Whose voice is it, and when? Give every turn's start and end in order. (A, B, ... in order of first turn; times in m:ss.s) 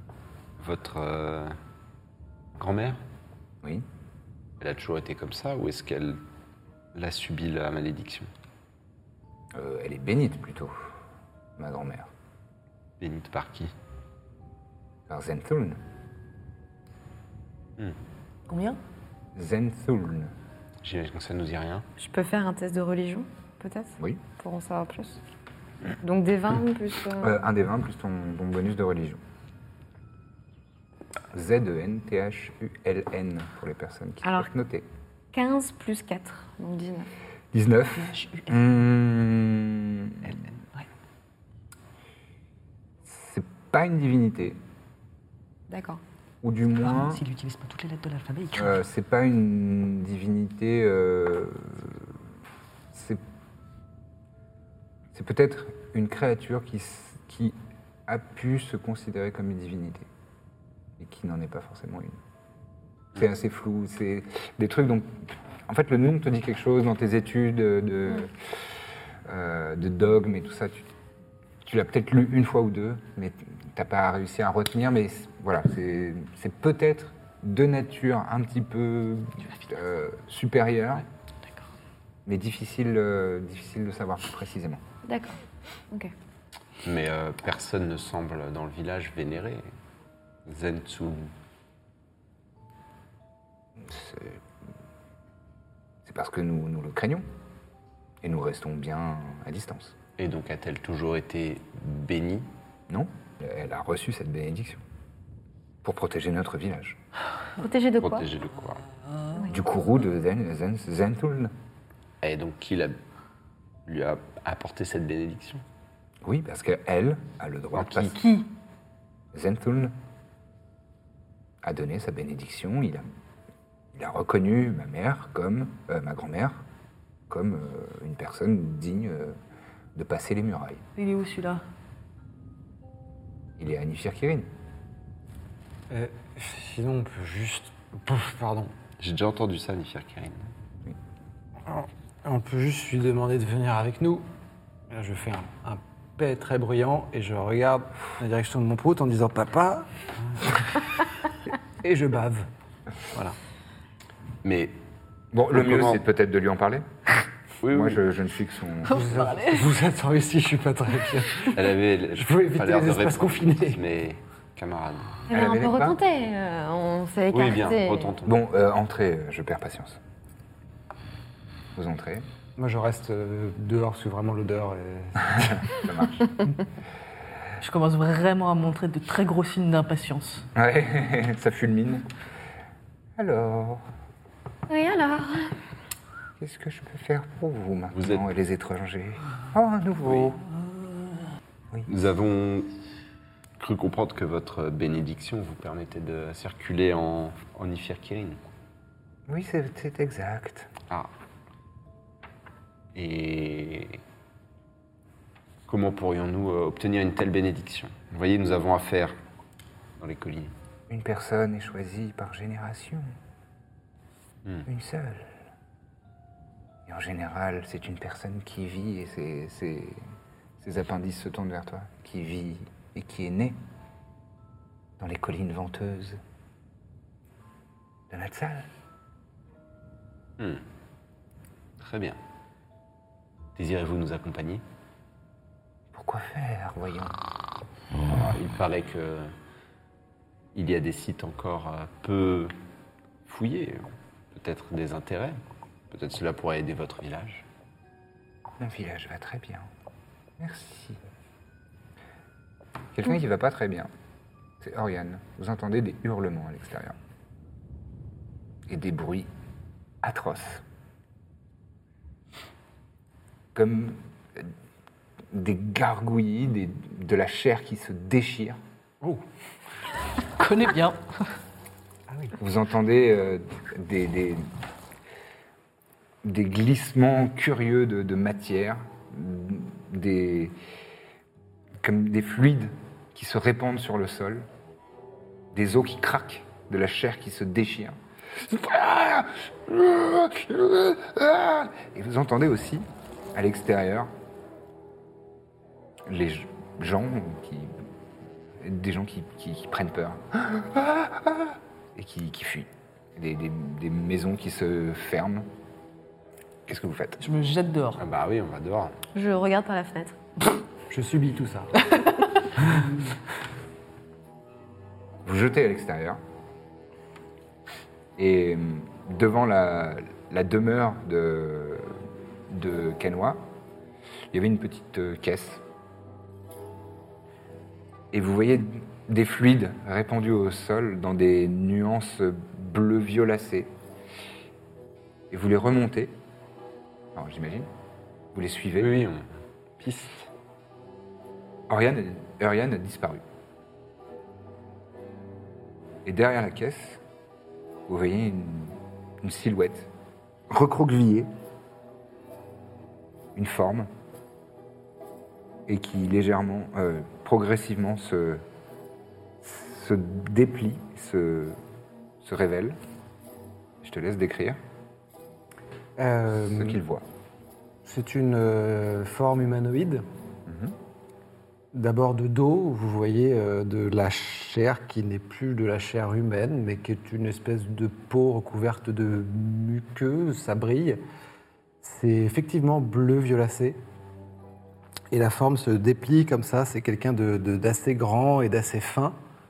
0:00.6-0:01.6 A
0:02.6-0:03.0 A
0:04.6-0:06.2 A
0:06.9-0:08.3 A
0:09.5-0:10.8 B
0:11.6-0:12.1 B
0:13.0-0:13.7 A
0:15.1-0:15.8 B
0:18.5-0:18.8 C
0:19.4-0:20.3 B
0:20.8-0:21.9 A
0:22.0-0:25.2 D
0:26.0-0:27.4 D
0:27.2-0:29.2 B
0:31.3-0:34.9 B
0:35.3-0:37.1 D
0:37.5-0:40.3 B
0:38.0-0:38.7 C
0:43.0-0:44.6 B
0:45.7-0:46.0 D
0:46.4-0:47.2 B
0:46.8-0:48.8 C
0:48.5-0:52.1 B
0:52.9-0:53.2 B
0:55.1-0:57.6 B
0:58.1-1:00.1 B
1:01.0-1:02.2 B
1:03.2-1:08.3 B
1:09.3-1:10.8 B
1:11.6-1:21.1 B
1:22.3-1:24.8 B
1:25.0-1:25.4 D
1:26.8-1:29.6 A
1:30.5-1:31.3 A
1:33.8-1:34.4 B
1:36.0-1:37.2 B
1:38.2-1:40.0 B
1:40.2-1:42.5 A
1:42.9-1:44.8 B
1:45.8-1:47.0 B
1:47.6-1:48.3 D
1:48.0-1:48.8 A
1:49.5-1:51.5 B
1:52.2-1:53.0 A
1:53.9-1:55.6 A
1:56.2-1:58.2 B
1:57.8-1:58.2 A
1:58.2-1:58.5 C
1:59.3-2:00.0 B
2:01.6-2:03.1 B
2:03.9-2:06.6 B
2:07.3-2:09.4 B
2:10.0-2:10.8 B
2:11.0-2:11.6 C
2:13.6-2:14.5 B
2:15.9-2:18.7 E
2:19.0-2:20.5 A
2:21.6-2:24.3 E
2:24.9-2:30.8 E
2:31.8-2:32.5 E
2:34.4-2:34.7 A
2:35.3-2:36.9 B
2:35.5-2:36.0 A
2:37.6-2:38.0 A
2:37.7-2:39.0 B
2:38.9-2:39.7 C
2:38.9-2:41.6 E
2:41.5-2:45.2 A
2:42.2-2:43.8 E
2:45.3-2:48.1 D
2:45.3-2:46.0 B
2:47.3-2:48.4 A
2:48.2-2:50.0 B
2:51.8-2:52.3 B
2:52.6-2:55.7 E
2:55.4-2:56.3 B
2:57.6-3:00.5 C
3:00.6-3:02.1 B
3:03.2-3:03.8 B
3:04.7-3:05.6 D
3:06.4-3:10.4 B
3:07.9-3:08.2 A
3:11.9-3:12.7 A
3:13.6-3:18.4 A
3:19.3-3:20.7 B
3:23.0-3:24.0 A
3:25.7-3:29.2 A
3:30.0-3:30.5 A
3:30.9-3:33.1 B
3:34.7-3:35.3 B
3:36.9-3:40.0 B
3:40.6-3:43.6 B
3:45.0-3:46.2 B
3:48.1-3:48.7 B
3:50.4-3:50.6 A
3:51.8-3:52.2 A
3:53.6-3:54.6 A
3:55.9-3:57.2 B
3:58.1-3:59.3 A
4:00.5-4:02.5 A
4:03.3-4:07.4 A
4:08.6-4:09.7 B
4:10.4-4:11.0 B
4:12.9-4:13.9 B
4:14.6-4:17.0 B
4:18.7-4:19.3 B
4:20.0-4:20.6 B
4:23.5-4:24.5 B
4:25.3-4:28.6 B
4:30.4-4:31.3 C
4:32.1-4:32.4 E
4:32.4-4:34.5 B
4:36.2-4:40.5 B
4:41.8-4:44.5 B
4:45.5-4:54.1 B
4:56.0-4:57.8 B
4:58.6-5:05.5 B
5:06.7-5:07.2 B
5:07.2-5:08.0 C
5:08.0-5:09.0 A
5:09.1-5:10.2 D
5:10.9-5:11.7 E
5:12.6-5:13.0 E
5:15.2-5:16.2 B
5:18.2-5:23.4 B
5:24.3-5:25.6 B
5:28.1-5:33.7 B
5:35.3-5:36.2 B
5:37.2-5:37.7 B
5:38.3-5:39.0 B
5:38.8-5:40.3 A
5:41.7-5:43.2 B
5:46.0-5:47.0 B
5:47.9-5:49.9 B
5:50.5-5:51.3 B
5:53.4-5:53.9 B
5:55.7-5:58.4 B
5:59.4-6:01.6 B
6:02.2-6:02.8 B
6:03.8-6:04.6 B
6:06.0-6:06.8 E
6:06.6-6:07.0 B
6:07.8-6:10.0 E
6:10.5-6:10.7 B
6:11.7-6:21.0 E
6:21.8-6:23.8 E
6:25.1-6:29.2 E